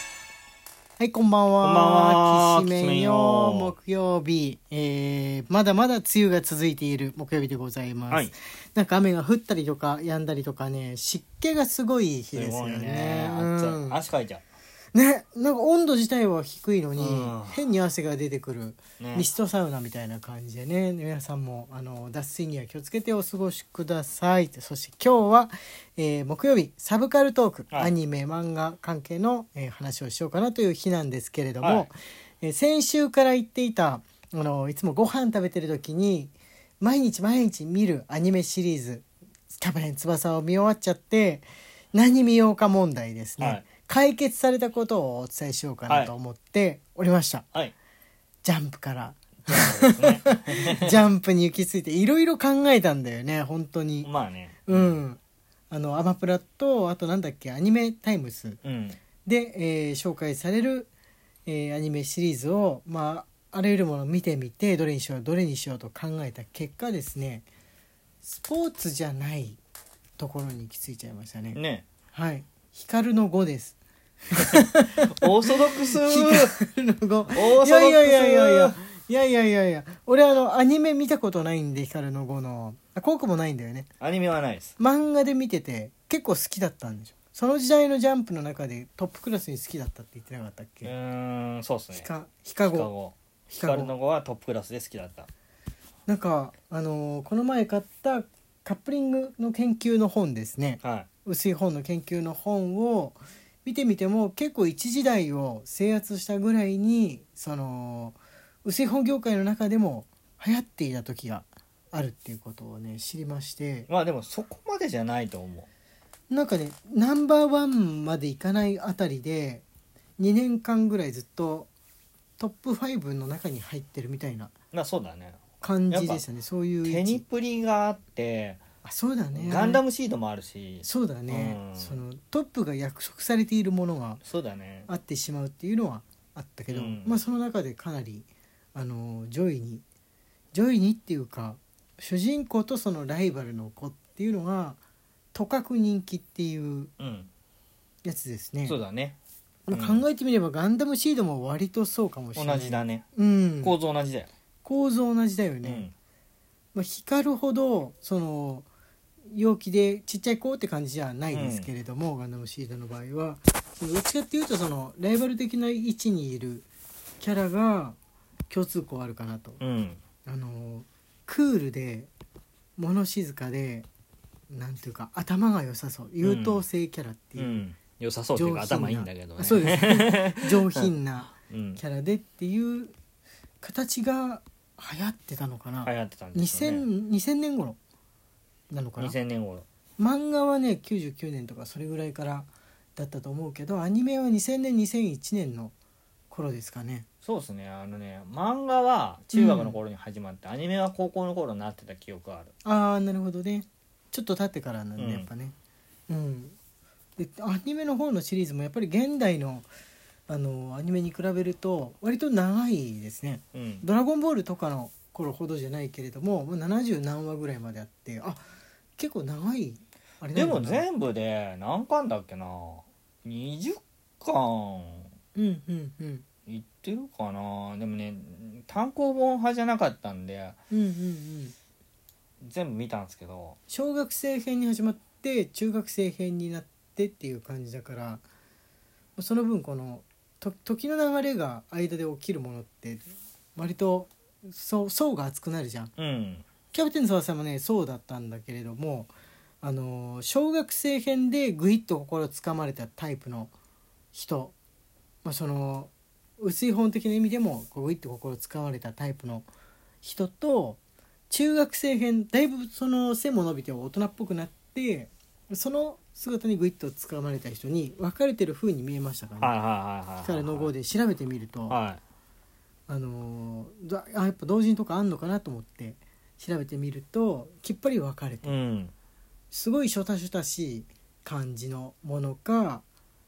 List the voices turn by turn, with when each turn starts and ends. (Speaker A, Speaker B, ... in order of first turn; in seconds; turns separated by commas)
Speaker A: 1.0-14.0, Speaker B: 1.6-3.8, Speaker B: 12.3-14.4, Speaker A: 14.9-39.0, Speaker B: 17.0-17.6, Speaker B: 19.0-19.3, Speaker B: 31.6-31.9, Speaker A: 39.6-47.5, Speaker A: 48.4-54.1, Speaker B: 49.5-51.0, Speaker B: 54.0-55.0, Speaker A: 54.7-55.2, Speaker A: 55.7-58.6, Speaker B: 58.6-59.0, Speaker A: 59.2-60.9, Speaker A: 61.5-67.5, Speaker A: 68.2-69.6, Speaker A: 70.2-71.6, Speaker B: 71.5-71.9, Speaker A: 72.1-73.8, Speaker A: 74.3-83.9, Speaker B: 75.1-76.5, Speaker B: 77.3-78.8, Speaker B: 84.0-84.7, Speaker A: 84.8-90.9, Speaker B: 90.8-92.1, Speaker A: 91.9-92.9, Speaker B: 92.6-95.3, Speaker A: 93.5-93.9, Speaker A: 96.1-113.9, Speaker B: 100.8-101.1, Speaker B: 113.9-115.7, Speaker A: 116.3-119.6, Speaker A: 120.2-121.7, Speaker A: 122.4-124.5, Speaker B: 124.7-126.2, Speaker A: 125.6-127.2, Speaker B: 126.8-128.6, Speaker A: 128.8-129.8, Speaker B: 129.3-132.0, Speaker A: 130.8-134.2, Speaker B: 134.2-134.9, Speaker A: 134.9-139.8, Speaker B: 136.7-137.2, Speaker A: 140.5-144.8, Speaker A: 145.3-146.9, Speaker B: 147.0-147.3, Speaker A: 148.1-148.8, Speaker B: 148.7-149.2, Speaker A: 149.7-153.8, Speaker B: 149.7-150.0, Speaker B: 152.3-153.1, Speaker B: 153.6-154.3, Speaker A: 154.6-155.9, Speaker B: 155.6-155.9, Speaker A: 156.7-158.7, Speaker A: 159.3-166.7, Speaker B: 161.3-161.7, Speaker A: 167.2-168.0, Speaker A: 168.5-169.6, Speaker B: 169.6-170.0, Speaker A: 170.3-172.1, Speaker A: 172.8-173.9, Speaker A: 174.5-177.6, Speaker B: 176.2-176.6, Speaker B: 177.4-181.8, Speaker A: 178.3-182.9, Speaker A: 183.6-187.8, Speaker B: 185.8-186.8, Speaker A: 188.7-189.2, Speaker B: 189.0-189.7, Speaker A: 190.0-195.7, Speaker A: 196.3-197.1, Speaker B: 197.2-202.5, Speaker A: 199.3-199.8, Speaker A: 202.6-205.5, Speaker B: 205.0-205.3, Speaker A: 206.1-206.6, Speaker A: 207.2-209.7, Speaker A: 210.3-218.4, Speaker B: 213.6-213.8, Speaker A: 219.0-220.9, Speaker B: 220.3-225.1, Speaker A: 225.3-226.2, Speaker B: 226.5-230.6, Speaker A: 230.7-231.5, Speaker B: 232.4-233.6, Speaker A: 233.7-238.2, Speaker A: 239.2-243.0, Speaker A: 243.6-245.9, Speaker B: 246.0-246.4, Speaker A: 246.7-253.5, Speaker A: 254.1-254.6, Speaker A: 255.2-259.5, Speaker A: 260.0-269.5, Speaker B: 269.4-270.7, Speaker A: 270.2-271.8, Speaker B: 271.7-272.0, Speaker A: 272.9-278.5, Speaker B: 278.4-278.9, Speaker A: 279.5-282.8